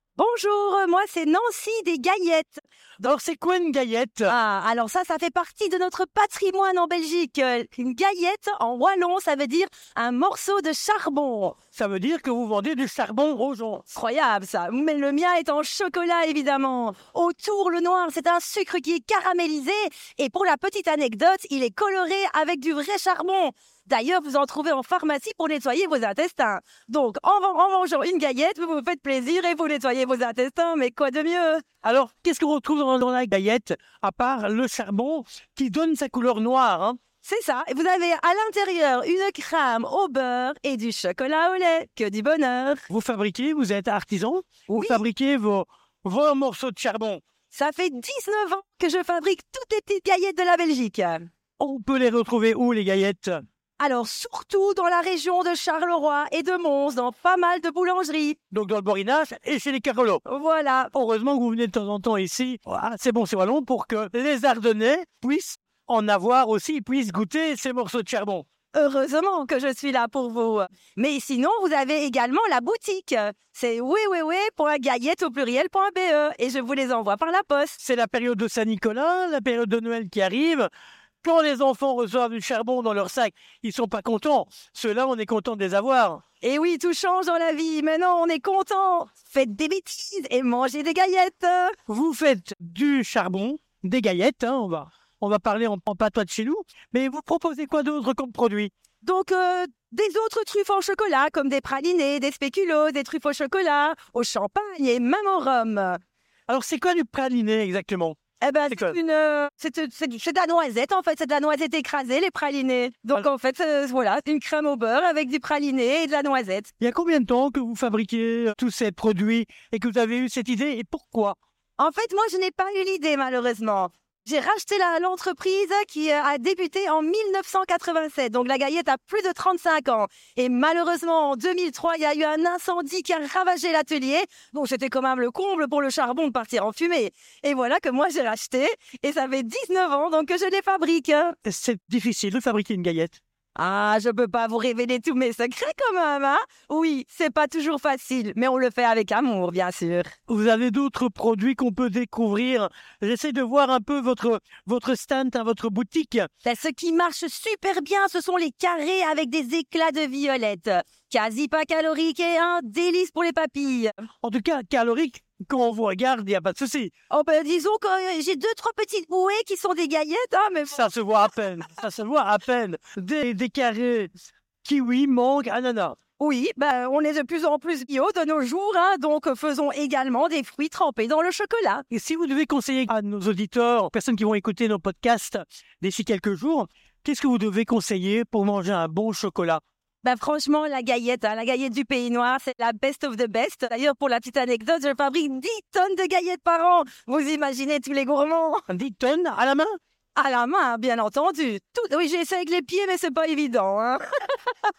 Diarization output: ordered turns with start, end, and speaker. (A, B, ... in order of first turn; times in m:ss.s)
0:00.2-0:02.6 A
0:03.0-0:04.3 B
0:04.3-0:11.6 A
0:11.7-0:13.8 B
0:13.9-0:31.6 A
0:31.8-0:37.0 B
0:37.2-0:42.8 A
0:42.9-0:47.2 B
0:44.7-0:45.0 A
0:47.5-0:51.2 A
0:51.6-0:53.4 B
0:53.8-0:58.4 A
0:58.5-1:00.2 B
1:00.2-1:00.9 A
1:00.9-1:08.4 B
1:08.7-1:17.8 A
1:17.8-1:20.7 B
1:21.2-1:26.2 B
1:26.4-1:31.8 A
1:31.9-1:38.7 B
1:39.0-1:46.0 A
1:46.5-1:48.2 B
1:48.4-1:56.7 A
1:48.7-1:49.0 B
1:56.8-2:01.4 B
2:01.8-2:21.4 A
2:21.4-2:23.2 B
2:23.6-2:30.1 A
2:30.3-2:36.3 B
2:36.4-2:43.9 A
2:44.2-2:46.9 B
2:47.1-2:50.9 A
2:50.7-2:54.1 B
2:54.6-2:56.0 B
2:56.2-3:01.8 A
3:01.9-3:09.6 B
3:10.0-3:18.7 A
3:18.7-3:19.7 B
3:20.2-3:24.5 A